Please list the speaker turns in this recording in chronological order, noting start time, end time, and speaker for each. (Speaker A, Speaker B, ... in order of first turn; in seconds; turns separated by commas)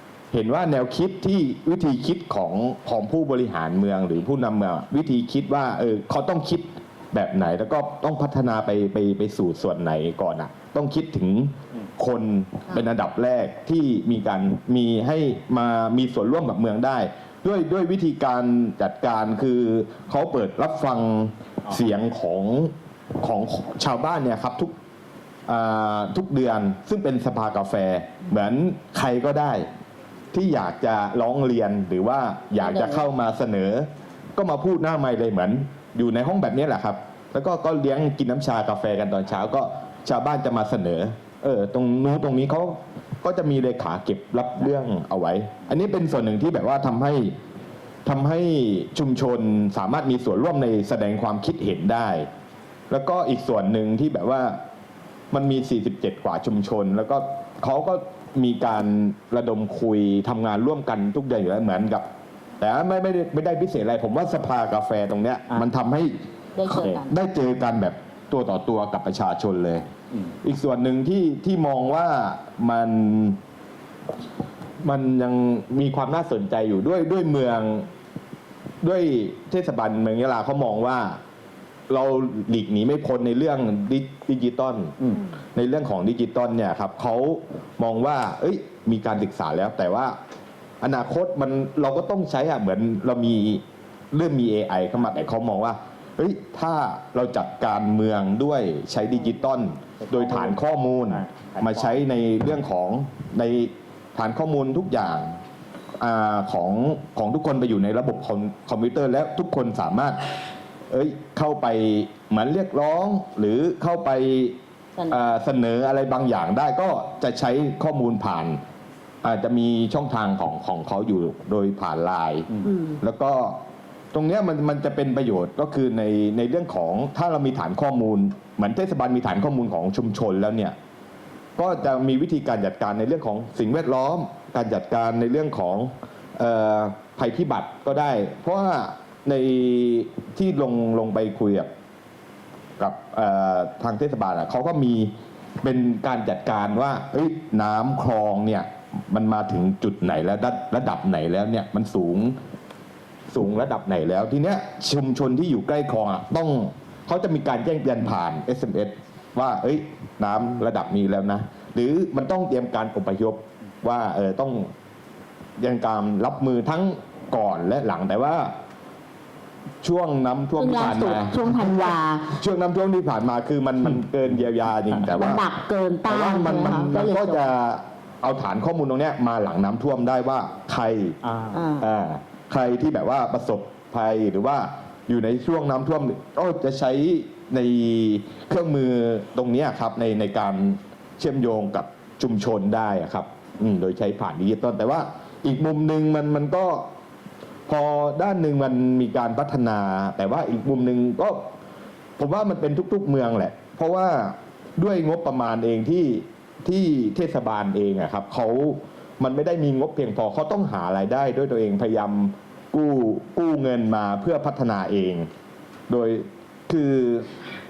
Speaker A: 0.3-24.7, Speaker A: 25.5-29.7, Speaker A: 30.3-47.3, Speaker B: 32.6-33.1, Speaker A: 48.0-52.3, Speaker A: 52.9-54.6, Speaker A: 55.3-62.0, Speaker A: 62.6-66.2, Speaker B: 66.5-67.1, Speaker C: 66.7-67.0, Speaker A: 67.0-69.9, Speaker A: 70.4-73.4, Speaker A: 74.8-77.9, Speaker A: 78.8-81.2, Speaker A: 81.9-85.0, Speaker A: 85.5-90.2, Speaker A: 90.8-105.4, Speaker C: 100.0-102.0, Speaker A: 106.0-110.3, Speaker A: 110.9-114.5, Speaker B: 115.0-115.2, Speaker A: 115.1-118.6, Speaker A: 119.2-122.5, Speaker B: 122.6-123.0, Speaker A: 123.0-123.6, Speaker A: 124.1-130.8, Speaker A: 131.6-141.7, Speaker A: 142.8-145.1, Speaker A: 145.6-152.3, Speaker A: 153.3-164.7, Speaker A: 165.6-168.5, Speaker A: 169.8-175.4, Speaker B: 170.6-172.3, Speaker B: 175.1-177.5, Speaker A: 176.1-181.2, Speaker C: 181.2-181.6, Speaker B: 181.5-181.9, Speaker A: 181.8-196.9, Speaker A: 197.7-201.5, Speaker A: 202.2-215.3, Speaker A: 215.9-217.3